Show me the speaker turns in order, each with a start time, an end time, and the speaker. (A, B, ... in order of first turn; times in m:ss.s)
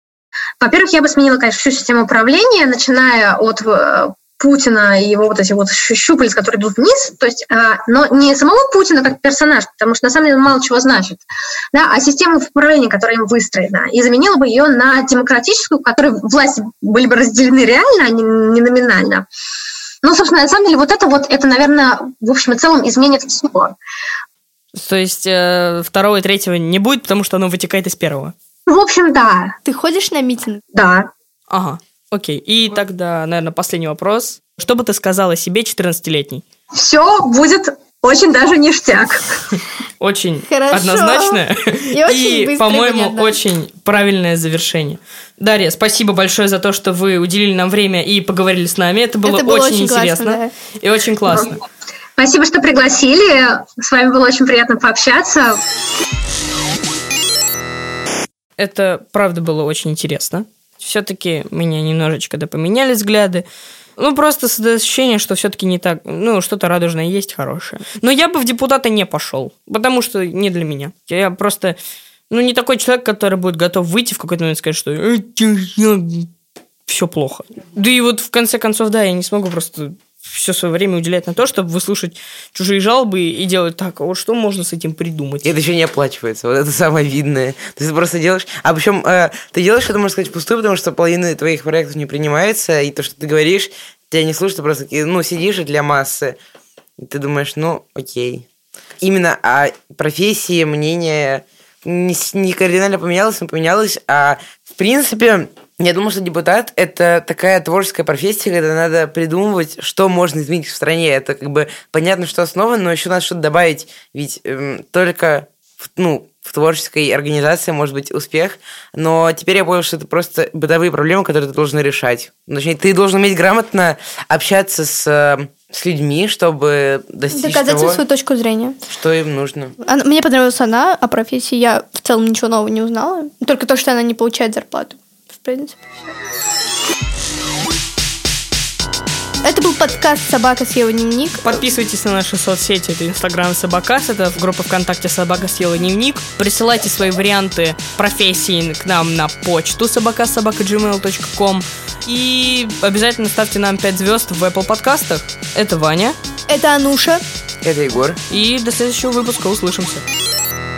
0:00.6-0:19.3 A
0:20.0-0:23.8 A
0:24.8-0:28.3 B
0:28.7-0:29.6 A
0:29.6-0:30.6 C
0:30.7-0:31.1 A
0:31.5-0:36.4 B
0:36.7-0:39.2 A
0:40.0-0:51.6 B
0:40.5-0:41.4 C
0:41.9-0:43.4 C
0:49.2-0:50.5 C
0:52.2-0:55.6 A
0:58.6-1:03.4 B
1:04.0-1:11.8 B
1:12.3-1:16.3 B
1:16.9-1:25.5 B
1:25.4-1:36.4 D
1:37.0-1:38.4 D
1:39.0-2:08.0 D
2:07.3-2:08.8 C
2:08.9-2:09.8 D
2:09.8-2:15.8 C
2:19.4-2:21.6 C
2:21.4-2:36.2 B
2:36.5-2:37.2 C
2:37.6-2:38.2 D
2:38.3-2:40.0 B